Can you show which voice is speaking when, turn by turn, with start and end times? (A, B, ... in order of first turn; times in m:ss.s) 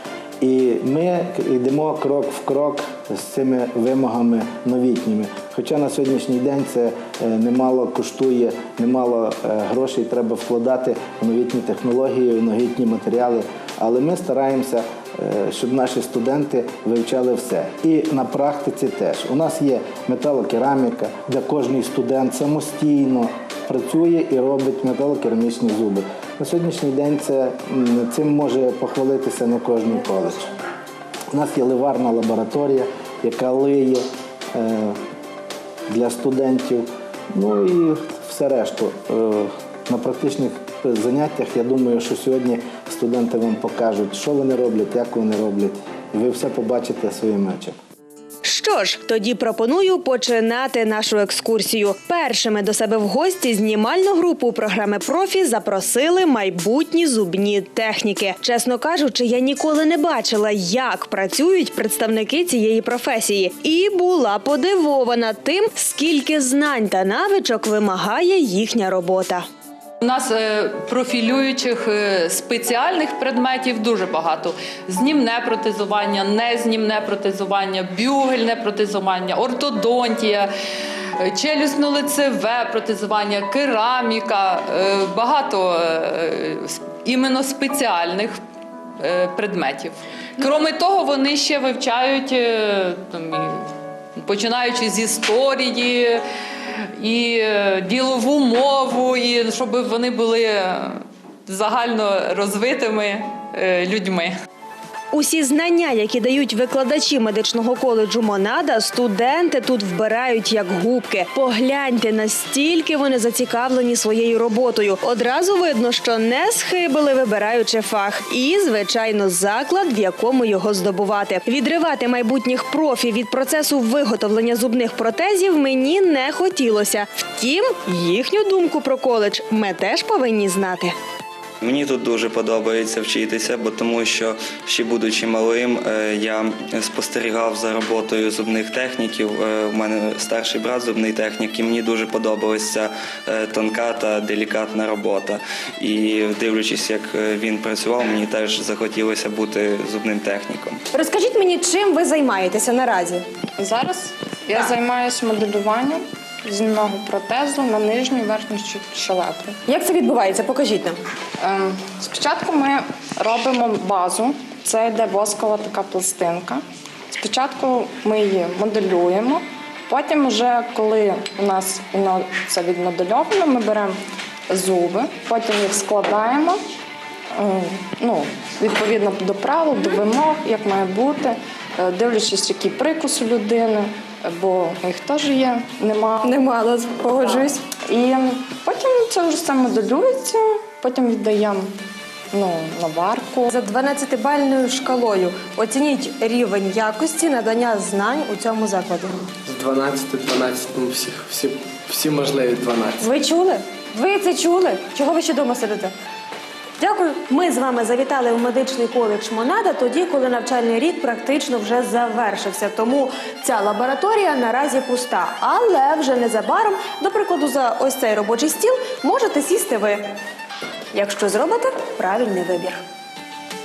0:00.4-0:30.5 A
0:31.3-0:34.0 A
0:34.5-0:35.0 A
0:35.9-0:47.8 A
0:48.4-1:09.4 B
1:10.0-1:20.5 C
1:21.2-1:28.4 C
1:29.0-1:33.6 C
1:34.2-1:36.2 C
1:37.0-1:41.0 C
1:41.5-1:44.3 C
1:45.1-2:10.9 B
2:11.6-2:30.8 D
2:30.9-2:33.2 B
2:33.6-2:39.6 E
2:39.7-2:40.9 B
2:41.4-2:46.6 E
2:47.1-2:54.0 E
2:54.5-2:56.6 E
2:57.4-3:06.3 E
3:06.3-3:07.5 B
3:07.2-3:11.7 E
3:12.3-3:13.5 E
3:13.5-3:19.2 B
3:19.5-3:22.9 F
3:23.0-3:25.9 B
3:26.8-3:40.0 B
3:40.9-3:42.8 B